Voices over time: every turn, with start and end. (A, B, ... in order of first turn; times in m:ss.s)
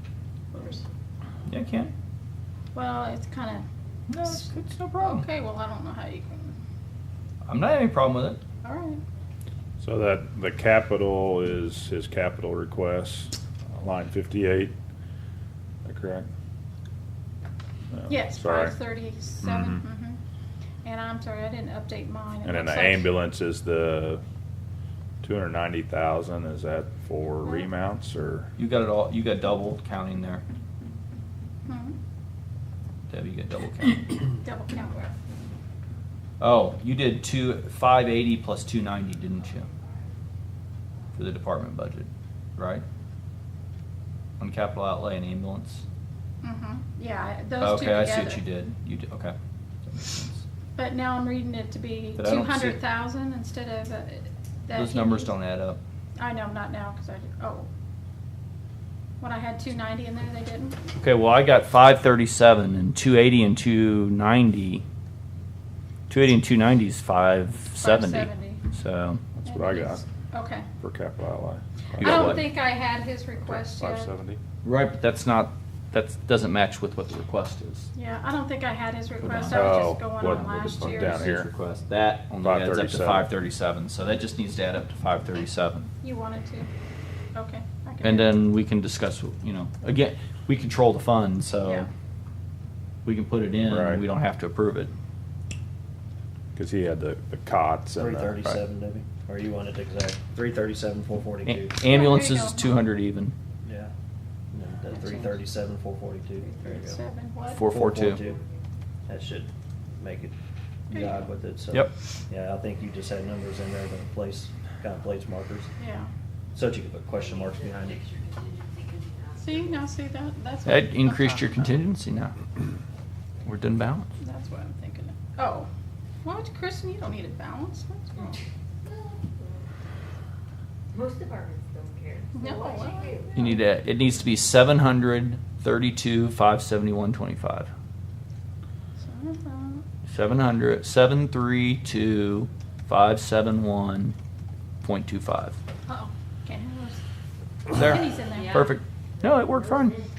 0:00.5-0:00.8 A
0:01.5-0:01.9 B
0:02.7-0:03.6 A
0:04.1-0:05.2 B
0:04.2-0:06.6 A
0:07.4-0:08.4 B
0:08.6-0:09.0 A
0:09.8-0:14.7 C
0:15.8-0:16.3 C
0:17.9-0:18.8 C
0:18.1-0:20.2 A
0:19.4-0:19.7 D
0:20.8-0:23.1 A
0:22.4-0:24.2 C
0:25.2-0:28.5 C
0:28.6-0:30.4 B
0:31.6-0:32.0 A
0:33.1-0:34.1 B
0:34.4-0:35.1 A
0:36.4-0:39.7 B
0:41.1-0:42.8 B
0:44.4-0:45.8 B
0:46.4-0:48.4 A
0:47.6-0:50.4 B
0:50.8-0:55.4 A
0:52.2-0:52.8 B
0:54.7-0:55.8 B
0:56.2-0:57.7 A
0:59.2-1:00.8 A
1:01.0-1:04.8 B
1:06.1-1:09.2 B
1:07.8-1:08.6 A
1:09.4-1:10.0 C
1:09.4-1:10.7 A
1:10.8-1:12.4 C
1:12.0-1:12.5 B
1:12.0-1:14.1 A
1:13.4-1:14.4 C
1:14.6-1:17.9 B
1:17.9-1:21.4 A
1:19.2-1:19.8 B
1:19.5-1:21.5 C
1:20.6-1:25.9 B
1:22.4-1:23.3 C
1:26.0-1:26.7 A
1:27.3-1:28.3 A
1:28.0-1:31.9 B
1:31.6-1:31.9 A
1:33.0-1:34.9 B
1:33.6-1:34.0 C
1:36.5-1:38.4 C
1:38.0-1:41.8 D
1:41.4-1:43.3 B
1:41.8-1:42.8 A
1:43.6-1:43.9 D
1:44.5-1:47.0 D
1:44.9-1:45.4 A
1:46.4-1:47.6 A
1:47.5-1:48.2 B
1:47.6-1:48.4 D
1:49.1-1:50.3 D
1:50.9-1:55.7 D
1:50.9-1:51.3 A
1:55.8-1:56.1 A
1:56.5-1:58.1 D
1:57.2-1:59.8 E
1:59.4-2:01.8 A
2:00.6-2:02.4 B
2:03.4-2:04.1 B
2:04.2-2:05.7 A
2:06.2-2:08.4 A
2:08.8-2:09.6 E
2:10.9-2:13.6 E
2:12.3-2:13.2 A
2:13.3-2:17.7 B
2:19.0-2:19.8 A
2:20.1-2:24.2 B
2:24.8-2:25.6 B
2:25.9-2:27.0 A
2:27.7-2:28.8 A
2:27.7-2:30.0 B
2:28.3-2:30.1 E